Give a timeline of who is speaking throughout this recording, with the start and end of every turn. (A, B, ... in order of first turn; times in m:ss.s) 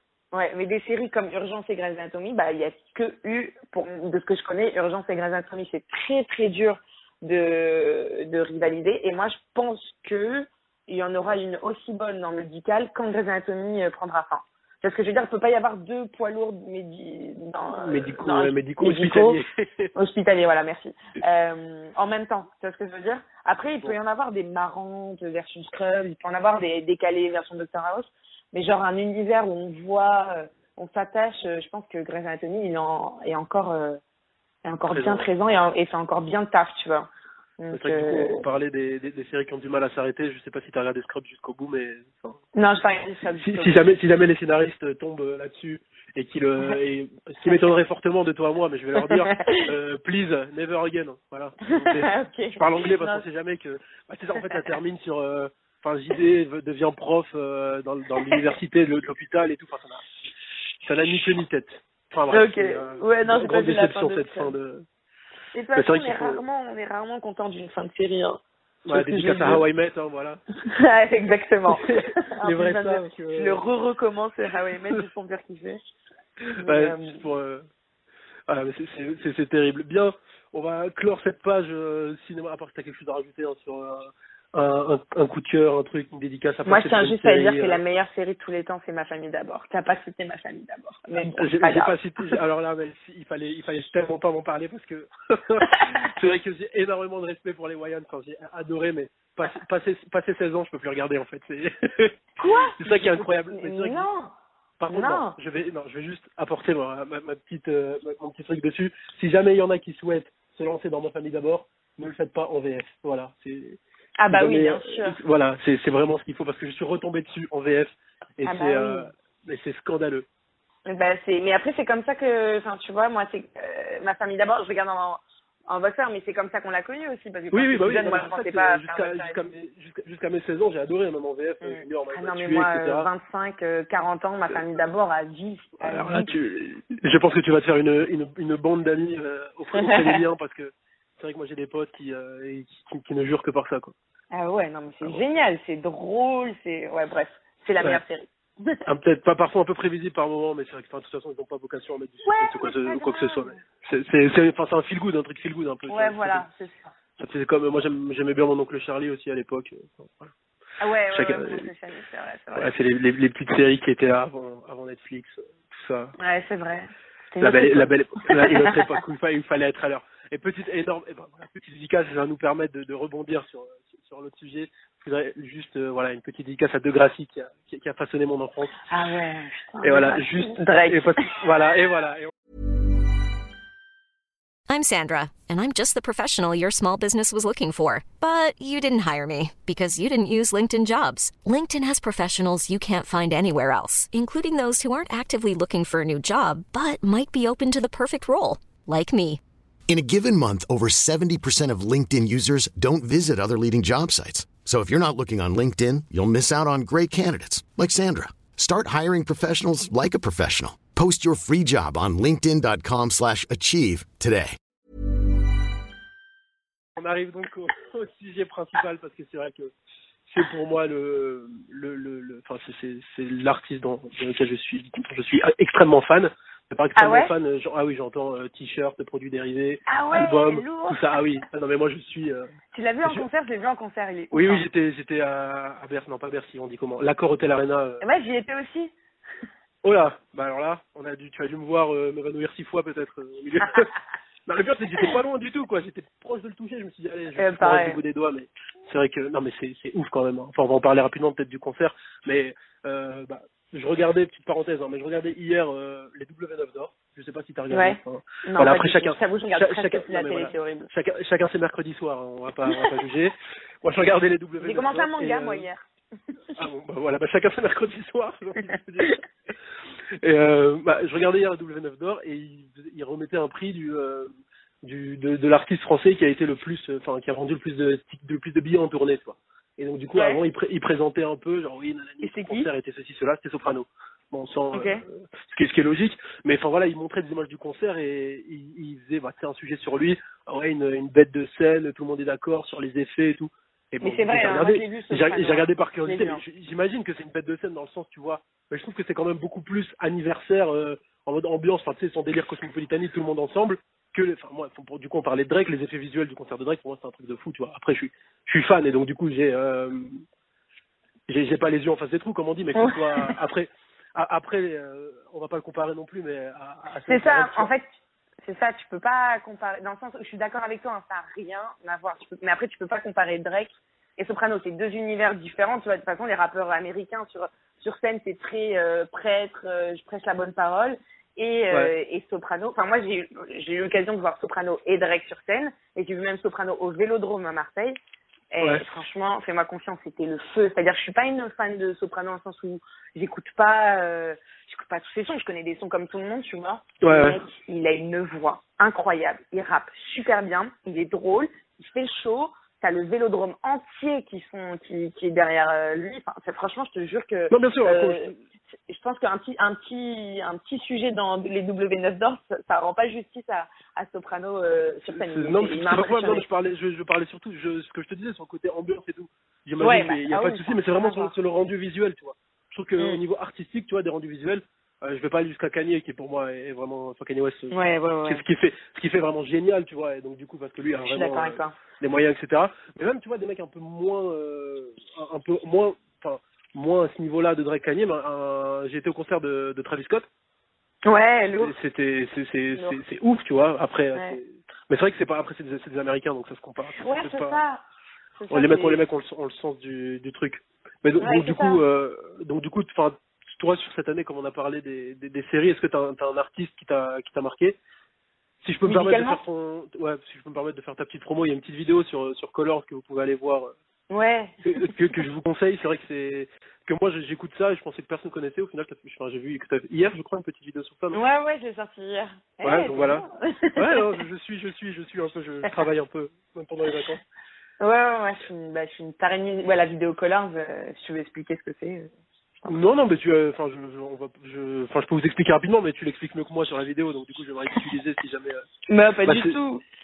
0:00.3-0:19.4 A
0:17.8-0:19.9 B
0:20.0-0:34.0 A
0:34.6-0:37.1 A
0:34.9-0:35.3 B
0:37.6-0:38.4 A
0:37.7-0:42.4 B
0:42.6-0:43.8 A
0:43.4-1:00.0 B
0:49.0-0:49.7 A
0:51.7-0:53.2 A
0:54.4-0:54.8 A
1:00.8-1:04.9 B
1:02.3-1:04.5 A
1:05.5-1:09.6 A
1:05.8-1:06.4 B
1:08.9-1:10.4 B
1:10.7-1:15.8 A
1:11.7-1:13.6 B
1:16.6-1:17.2 A
1:16.7-1:17.7 B
1:18.5-1:27.8 B
1:26.7-1:32.4 A
1:31.2-1:42.2 B
1:42.4-1:44.3 A
1:42.8-1:44.1 B
1:44.8-1:53.8 B
1:44.9-1:45.4 A
1:54.2-1:55.2 A
1:54.3-2:00.3 B
1:58.4-1:59.1 A
2:00.9-2:09.4 A
2:07.5-2:13.1 B
2:11.6-2:16.3 A
2:15.8-2:23.9 B
2:19.8-2:20.2 A
2:24.3-2:28.8 A
2:28.9-2:36.5 B
2:32.2-2:33.6 A
2:35.9-2:36.9 A
2:37.2-2:40.3 B
2:40.8-2:42.7 A
2:41.1-2:41.7 B
2:42.6-2:46.1 B
2:46.2-2:48.8 A
2:47.4-2:58.8 B
2:58.9-3:01.2 A
2:59.8-3:02.3 B
3:04.7-3:19.4 C
3:19.9-3:34.6 D
3:37.0-3:39.7 B
3:40.3-3:52.5 B
3:47.0-3:47.3 A
3:49.9-3:51.2 A
3:52.7-3:54.6 A
3:54.3-3:58.0 B
3:58.0-3:58.9 A
3:59.8-4:03.9 B
4:04.5-4:25.7 B
4:07.4-4:08.0 A
4:17.7-4:20.9 A
4:24.6-4:25.8 A
4:26.6-4:29.2 B
4:30.2-4:34.3 B
4:34.8-5:10.2 B
4:40.2-4:40.4 A
4:42.2-4:42.7 A
4:44.7-4:45.0 A
4:54.0-4:56.4 A
5:11.3-5:17.7 B
5:12.8-5:13.4 A
5:17.1-5:17.9 A
5:18.4-5:38.0 A
5:38.5-5:58.3 A
5:47.0-5:47.4 B
5:57.5-5:58.4 B
5:58.9-6:06.4 A
6:05.1-6:30.3 B
6:09.8-6:11.3 A
6:17.7-6:18.4 A
6:21.1-6:21.8 A
6:31.0-6:31.8 A
6:31.6-6:37.6 B
6:32.8-6:33.0 A
6:37.0-6:37.8 A
6:38.4-6:39.0 A
6:38.5-6:47.8 B
6:41.2-6:41.8 A
6:48.6-6:53.7 B
6:48.9-6:49.4 A
6:54.1-6:55.0 A
6:54.6-7:01.2 B
7:01.1-7:04.2 A
7:02.6-7:07.2 B
7:07.8-7:12.1 A
7:12.7-7:18.6 B
7:18.9-7:19.8 A
7:19.3-7:19.6 B